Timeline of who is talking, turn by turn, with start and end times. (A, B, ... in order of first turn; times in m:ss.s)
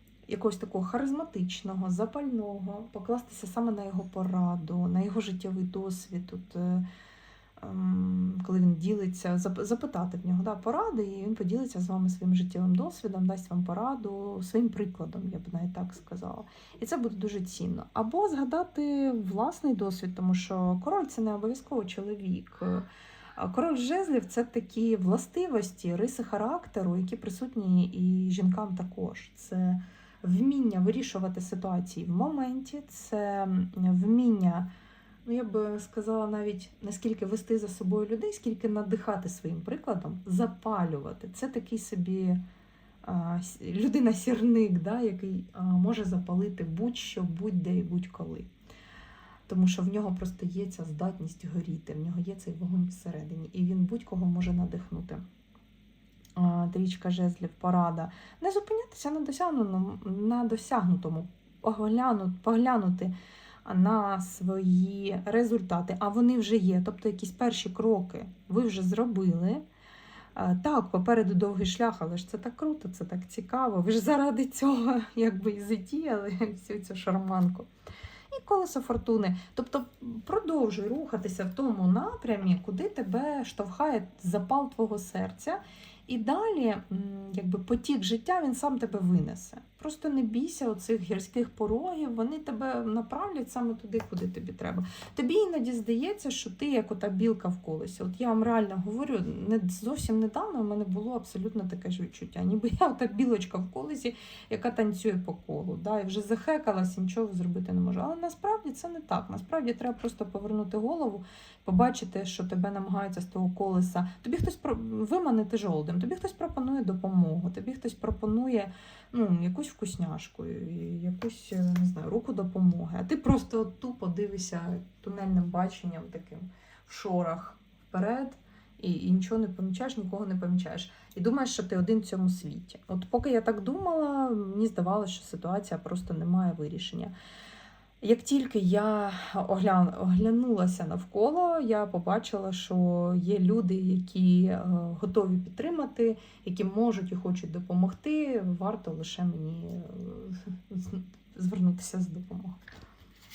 0:00.3-0:06.9 A
0:07.6-0:34.7 A
0:35.2-0:42.4 A
0:43.0-0:48.5 A
0:49.5-0:55.2 A
0:56.4-1:03.1 A
1:03.6-1:09.6 A
1:10.4-1:17.7 A
1:18.3-2:17.1 A
2:18.0-2:32.6 A